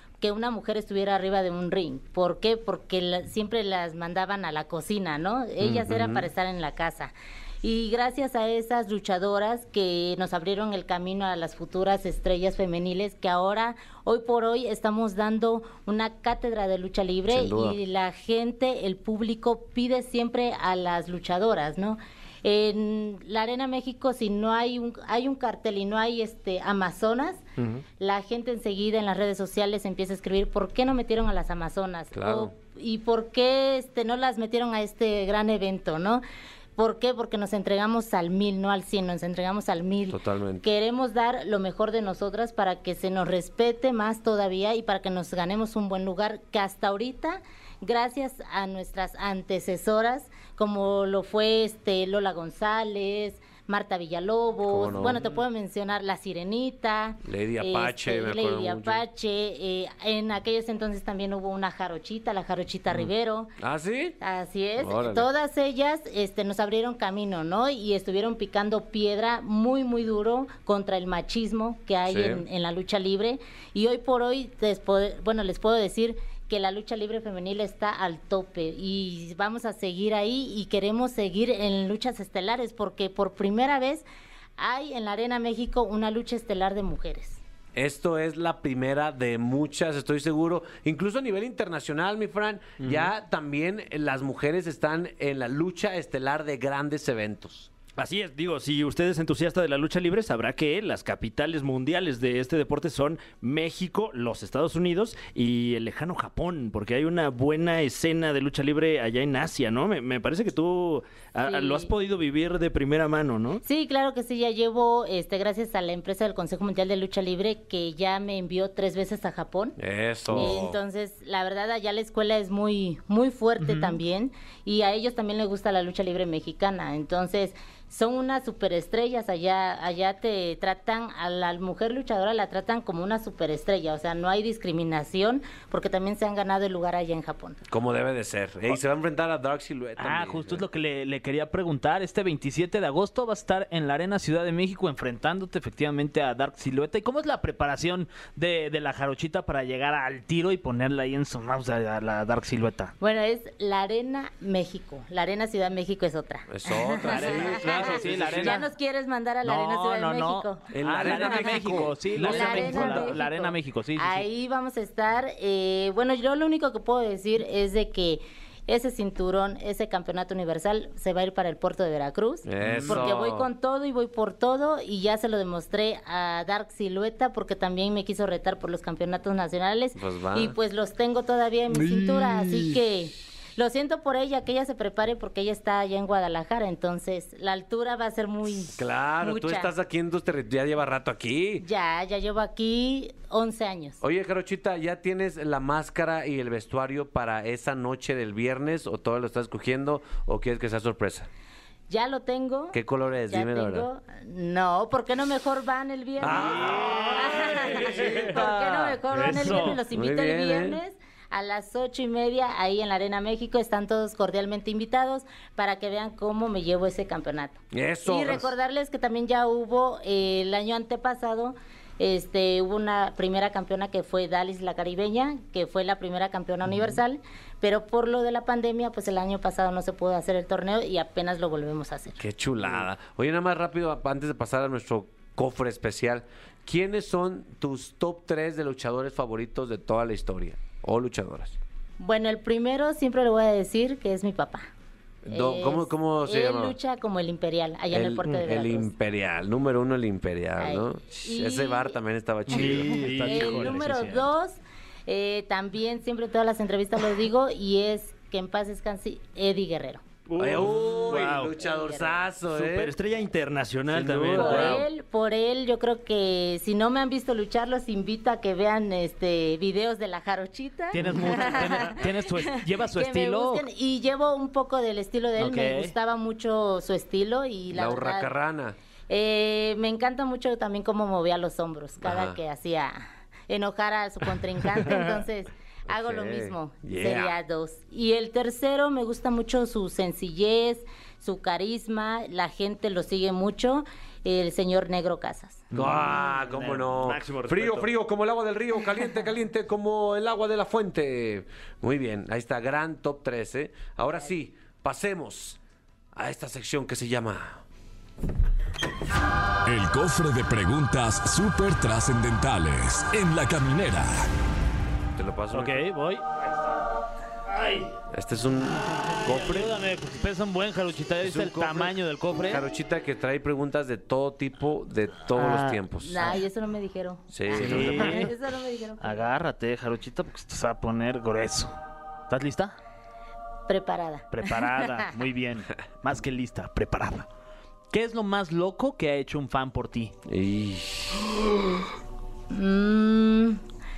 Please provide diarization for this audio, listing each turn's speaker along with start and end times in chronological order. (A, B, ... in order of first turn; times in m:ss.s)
0:00.2-0:27.4 A
0:05.6-0:06.3 B
0:17.3-0:17.8 B
0:28.0-0:36.2 A
0:32.1-0:32.5 B
0:36.8-1:03.5 A
0:40.1-0:40.6 B
0:54.7-0:55.3 B
0:57.2-0:59.0 B
1:03.6-1:04.2 B
1:04.2-1:24.0 A
1:04.8-1:05.3 B
1:12.0-1:12.4 B
1:24.6-1:27.4 A
1:27.7-1:37.7 B
1:32.8-1:33.1 C
1:38.0-1:53.6 C
1:51.4-1:51.9 A
1:53.6-1:59.8 A
1:59.8-2:00.8 B
2:00.3-2:17.6 A
2:03.6-2:04.0 D
2:17.7-2:20.6 B
2:20.0-2:32.9 D
2:33.0-3:09.7 A
2:36.5-2:38.6 B
2:37.0-2:38.7 D
2:39.4-2:44.2 D
2:40.7-2:43.2 B
2:52.4-2:53.5 B
2:52.6-2:53.0 C
2:59.9-3:00.5 B
3:08.8-3:11.6 B
3:11.6-3:14.0 A
3:14.0-3:21.3 B
3:21.9-3:52.2 A
3:22.7-3:23.9 B
3:26.2-3:28.9 B
3:26.6-3:27.2 C
3:29.1-3:29.8 C
3:29.9-3:30.8 B
3:37.7-3:38.5 B
3:52.2-4:01.6 B
4:02.0-4:04.7 A
4:05.2-4:06.8 B
4:05.3-4:08.9 A
4:07.9-4:13.1 B
4:10.6-4:12.0 A
4:12.5-4:14.3 D
4:12.5-4:13.8 C
4:13.2-4:20.0 A
4:20.3-4:21.5 C
4:20.4-4:22.9 B
4:21.6-4:22.2 A
4:22.5-4:24.8 C
4:23.9-4:24.8 B
4:24.3-4:38.3 A
4:30.9-4:33.6 D
4:35.4-4:35.9 D
4:37.7-4:38.8 B
4:39.1-4:55.6 A
4:42.0-4:42.4 B
4:45.9-4:47.3 B
4:55.7-4:57.9 C
4:55.7-5:05.6 B
5:06.1-5:07.6 B
5:09.6-5:14.3 E
5:15.2-5:15.8 B
5:15.5-5:16.5 D
5:17.5-5:17.9 D
5:18.1-5:19.7 B
5:19.2-5:22.6 D
5:21.2-5:26.3 B
5:25.3-5:26.3 D
5:26.0-5:29.2 A
5:27.3-5:28.3 B
5:27.5-5:28.3 D
5:29.0-5:31.7 D
5:32.3-5:32.8 D
5:33.7-5:35.1 A
5:34.3-5:37.3 D
5:37.9-5:40.1 D
5:40.2-5:41.3 B
5:42.5-5:43.6 A